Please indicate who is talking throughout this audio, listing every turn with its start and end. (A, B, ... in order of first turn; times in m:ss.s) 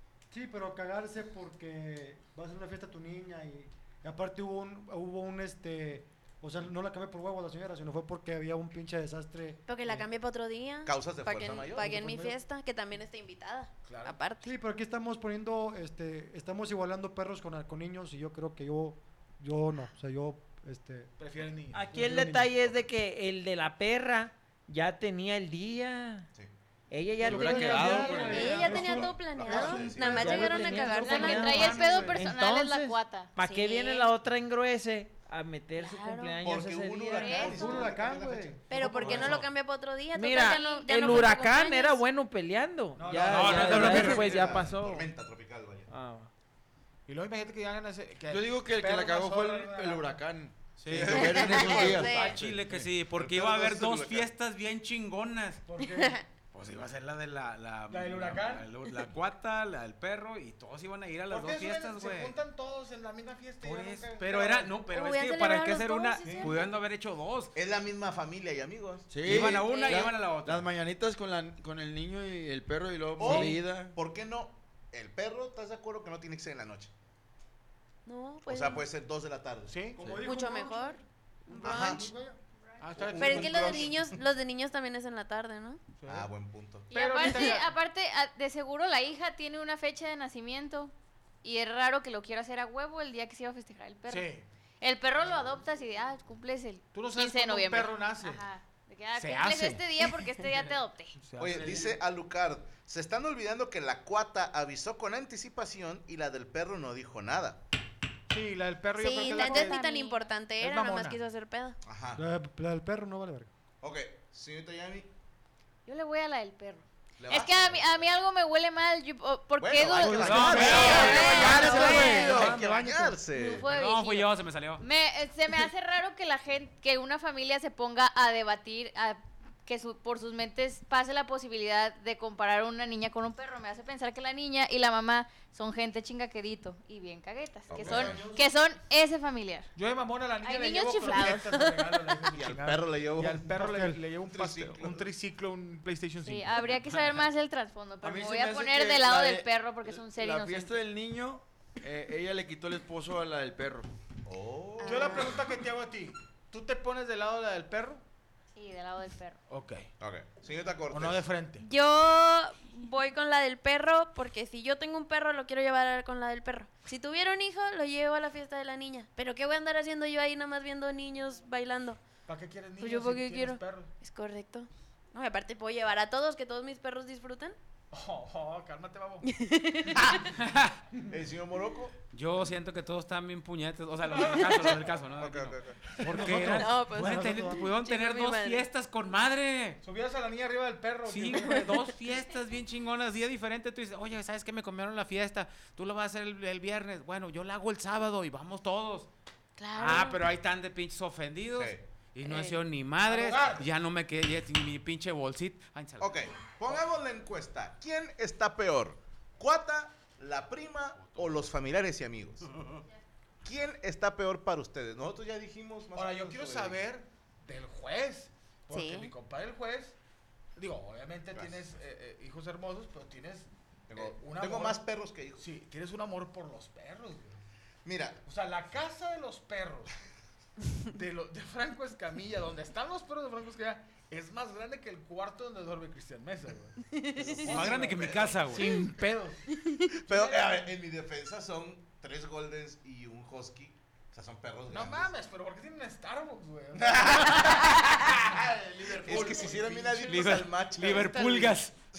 0:00.3-0:10.0 A
0:09.7-0:14.5 B
0:10.8-0:12.0 C
0:11.8-0:12.4 A
0:13.8-0:14.2 D
0:14.4-0:21.1 A
0:21.2-0:22.2 D
0:21.7-0:26.3 E
0:21.9-0:22.5 A
0:26.9-0:28.7 E
0:27.2-0:28.7 F
0:27.2-0:30.8 A
0:27.3-0:29.0 D
0:28.2-0:31.8 B
0:28.6-0:30.4 C
0:29.4-0:37.8 E
0:30.3-0:32.3 D
0:30.9-0:33.3 G
0:33.4-0:34.1 B
0:35.7-0:36.4 B
0:36.4-0:39.4 C
0:37.2-0:37.8 G
0:37.4-0:39.3 A
0:38.7-0:42.0 B
0:39.0-0:39.4 D
0:39.0-0:39.4 H
0:40.1-0:45.1 E
0:42.9-0:44.6 D
0:43.2-0:44.4 H
0:43.5-0:44.3 F
0:43.8-0:45.9 C
0:45.9-0:46.3 E
0:47.1-0:50.1 D
0:48.3-0:52.9 F
0:50.8-0:55.6 H
0:50.9-0:51.9 C
0:51.0-0:52.4 B
0:53.1-0:54.3 C
0:55.6-0:56.2 D
0:55.9-0:56.2 B
0:56.5-1:02.4 H
0:57.9-0:58.7 D
1:01.3-1:04.8 D
1:03.6-1:07.5 H
1:04.8-1:06.7 B
1:07.5-1:09.2 C
1:09.1-1:13.9 F
1:09.2-1:10.7 H
1:09.3-1:10.1 B
1:13.2-1:16.9 C
1:13.2-1:13.6 D
1:18.0-1:18.8 B
1:18.4-1:19.7 C
1:19.7-1:20.0 D
1:20.0-1:22.4 A
1:20.0-1:20.2 F
1:20.2-1:22.0 B
1:21.6-1:22.1 C
1:22.8-1:23.9 D
1:23.0-1:24.2 C
1:23.1-1:25.8 B
1:26.0-1:26.3 D
1:26.1-1:26.9 C
1:26.9-1:27.7 D
1:26.9-1:34.3 G
1:34.1-1:34.4 D
1:34.8-1:41.2 G
1:36.9-1:38.4 D
1:39.2-1:39.8 D
1:41.2-1:41.9 D
1:41.4-1:47.6 C
1:48.3-1:49.8 D
1:49.0-1:51.8 B
1:49.2-1:50.3 G
1:50.6-1:51.2 D
1:51.8-1:52.2 C
1:52.1-1:53.5 A
1:53.8-1:55.1 C
1:55.9-2:02.2 G
1:57.2-1:58.1 C
1:59.6-2:03.7 C
2:00.0-2:03.2 D
2:00.2-2:00.8 H
2:00.6-2:02.4 B
2:03.3-2:19.7 G
2:03.6-2:04.8 H
2:17.7-2:18.2 C
2:17.7-2:18.4 A
2:19.8-2:26.8 D
2:20.4-2:21.7 G
2:22.3-2:23.5 C
2:23.5-2:24.0 A
2:24.3-2:25.1 C
2:26.2-2:30.7 G
2:28.0-2:33.9 F
2:34.2-2:35.3 C
2:34.8-2:35.4 B
2:34.8-2:38.0 D
2:38.6-2:39.4 G
2:39.5-2:39.9 D
2:40.0-2:41.2 C
2:40.9-2:41.7 D
2:41.6-2:52.0 B
2:52.3-2:53.9 D
2:52.8-2:57.6 B
2:57.9-2:59.3 D
2:59.3-3:00.2 B
3:00.3-3:00.8 H
3:01.1-3:02.0 C
3:02.1-3:09.8 H
3:04.3-3:04.6 B
3:05.2-3:05.9 C
3:06.0-3:06.9 D
3:06.1-3:07.6 A
3:06.3-3:08.7 B
3:09.8-3:11.9 D
3:11.0-3:19.1 H
3:19.6-3:20.2 B
3:19.8-3:26.2 H
3:21.5-3:21.8 C
3:22.2-3:22.6 B
3:23.0-3:23.7 D
3:26.0-3:32.5 C
3:33.4-3:36.8 C
3:35.9-3:39.9 D
3:38.7-3:39.1 B
3:40.6-3:44.8 D
3:41.3-3:41.6 C
3:43.9-3:45.4 C
3:45.4-3:47.4 D
3:47.8-3:48.2 C
3:48.2-3:49.9 D
3:50.9-3:59.5 D
3:56.9-3:57.4 B
3:57.4-3:58.6 C
3:57.5-3:58.8 H
3:59.6-3:59.8 B
4:00.0-4:05.1 C
4:00.1-4:00.4 D
4:04.7-4:10.2 D
4:06.8-4:07.9 C
4:08.3-4:10.0 F
4:09.0-4:11.6 C
4:09.9-4:11.7 H